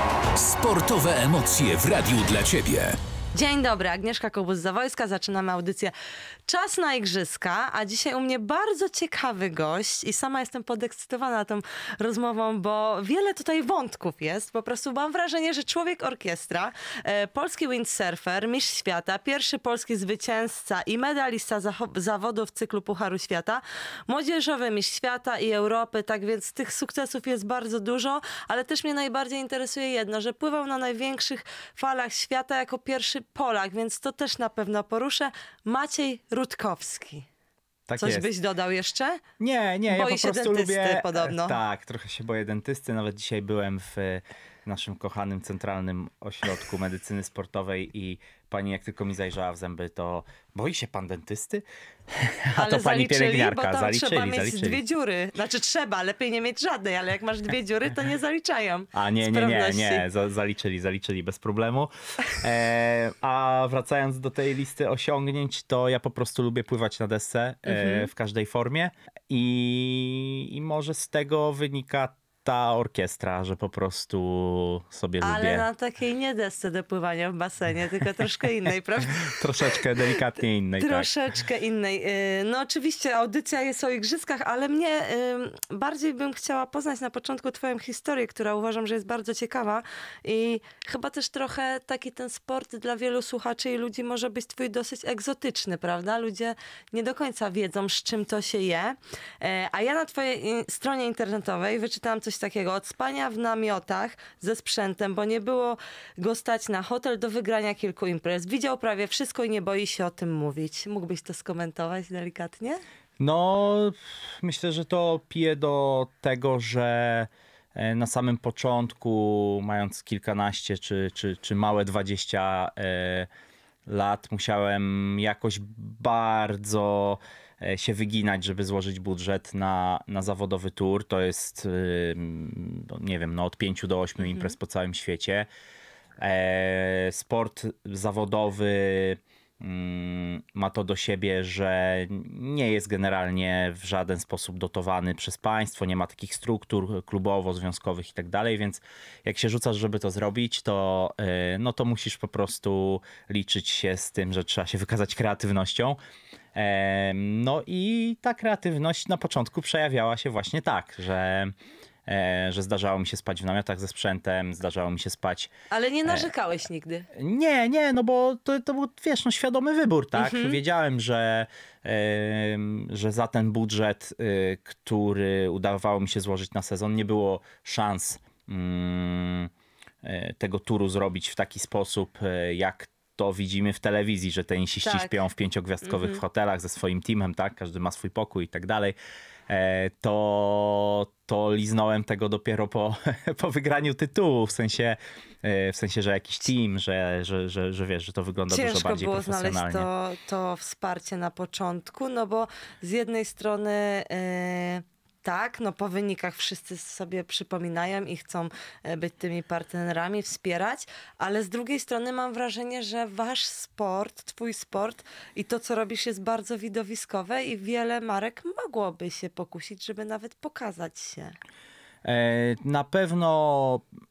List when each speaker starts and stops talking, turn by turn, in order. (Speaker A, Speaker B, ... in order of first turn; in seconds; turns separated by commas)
Speaker A: 0.3-3.0, Speaker B: 3.3-5.9, Speaker B: 6.5-37.3, Speaker C: 37.9-38.3, Speaker B: 38.0-39.2, Speaker C: 39.4-54.8, Speaker B: 39.9-41.6, Speaker B: 52.5-60.1, Speaker C: 58.9-75.7, Speaker B: 67.7-68.1, Speaker B: 75.2-79.9, Speaker C: 79.2-81.1, Speaker B: 80.8-112.8, Speaker C: 113.2-123.3, Speaker C: 123.9-135.5, Speaker B: 134.2-134.5, Speaker C: 136.2-156.0, Speaker C: 156.6-161.6, Speaker C: 162.1-165.5, Speaker B: 165.7-167.1, Speaker C: 166.1-166.3, Speaker C: 167.1-179.5, Speaker B: 170.2-170.6, Speaker C: 180.0-189.0, Speaker B: 184.8-185.2, Speaker B: 185.8-186.2, Speaker C: 189.5-199.9, Speaker B: 198.5-221.4, Speaker C: 222.0-223.8